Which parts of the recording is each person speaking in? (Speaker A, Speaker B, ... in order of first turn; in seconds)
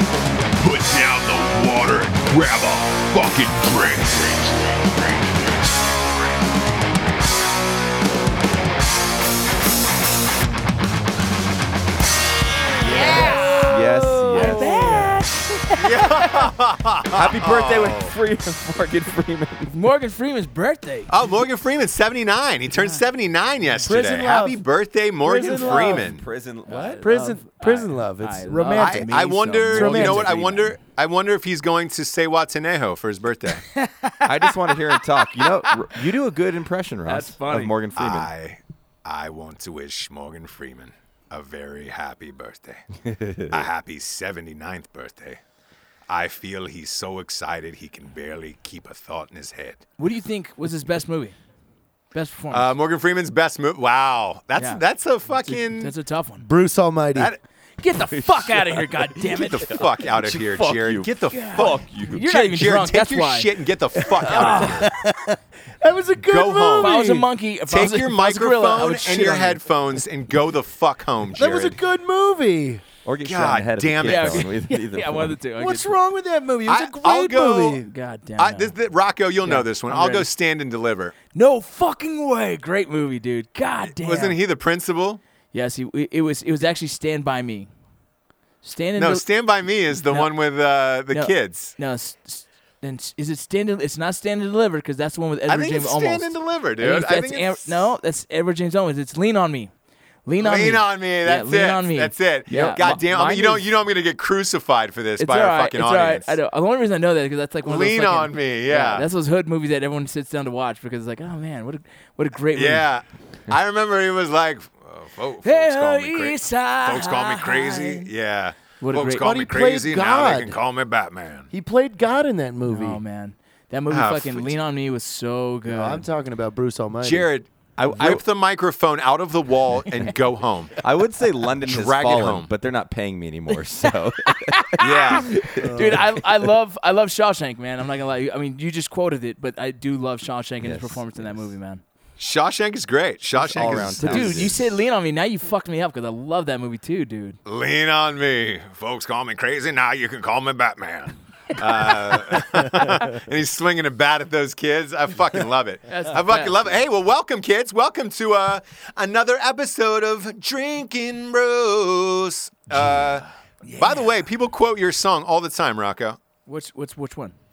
Speaker A: 0.6-5.5
Speaker B: 12.8-15.2, 17.1-19.7, 25.4-27.1, 34.2-38.3, 43.0-43.6, 58.1-59.0, 59.7-62.2, 73.0-75.4, 127.8-128.2, 130.8-136.2, 140.6-141.3, 143.3-144.7
Speaker C: 12.8-13.8, 15.8-18.1, 21.1-26.2, 28.7-33.6, 38.0-42.8, 43.5-45.4, 46.1-49.8, 52.5-55.9, 59.2-64.9, 66.2-66.9, 67.7-71.8, 73.2-74.5, 76.7-77.8, 78.4-81.1, 83.9-85.2, 89.0-91.7, 95.5-97.9, 100.4-106.3, 107.6-109.1, 112.5-121.5, 123.9-124.5, 127.0-130.8, 131.6-132.5, 134.8-135.4, 142.2-144.5, 147.4-163.2, 163.8-166.2
Speaker D: 12.9-16.5, 19.7-21.1, 26.7-30.7, 33.6-35.9, 37.0-37.7, 50.0-51.4, 52.1-52.7, 54.6-54.8, 55.4-56.5, 57.8-59.8, 61.3-63.5, 64.2-64.9, 66.8-69.6, 74.0-75.9, 77.7-78.7, 79.4-80.3, 81.3-84.4, 85.5-87.7, 88.6-89.2, 90.0-90.3, 91.1-99.7, 100.2-103.7, 105.2-112.9, 115.4-118.1, 118.8-119.3, 122.7-126.0, 134.2-141.8, 144.0-147.4, 155.9-156.6, 163.6-164.1, 166.4-167.3
Speaker E: 14.3-15.0, 23.9-24.6, 25.2-26.1, 26.7-29.1, 29.7-30.3, 56.4-57.3, 64.0-67.3, 71.3-72.8, 75.6-77.8, 119.2-120.6, 121.5-123.0, 125.7-127.3, 135.6-136.1